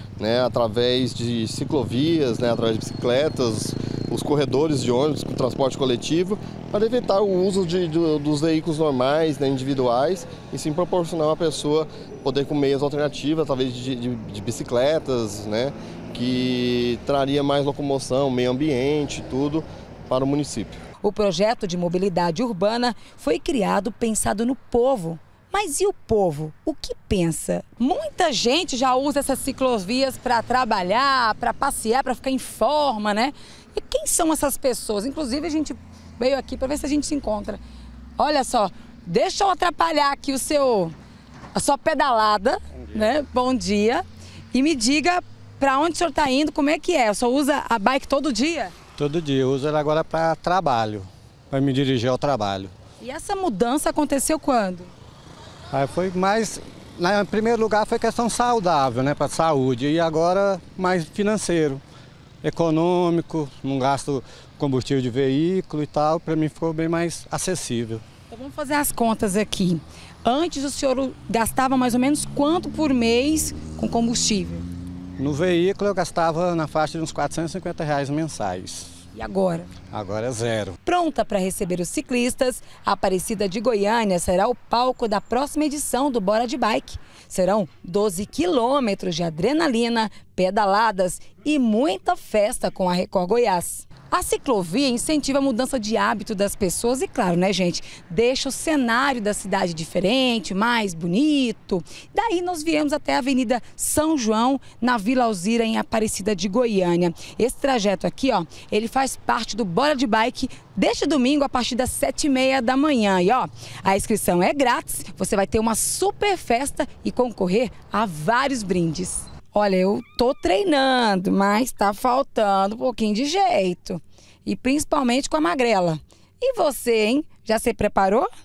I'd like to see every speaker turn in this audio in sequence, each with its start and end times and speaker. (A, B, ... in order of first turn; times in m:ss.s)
0:00.2-0:20.8 A
0:21.0-0:37.6 B
0:38.2-0:41.0 B
0:41.5-0:48.7 B
0:49.0-0:52.7 C
0:53.0-0:54.9 B
0:55.7-1:01.8 C
1:02.4-1:08.0 C
1:08.3-1:14.6 B
1:15.2-1:18.9 C
1:19.1-1:19.7 B
1:19.9-1:20.8 C
1:20.8-2:08.3 B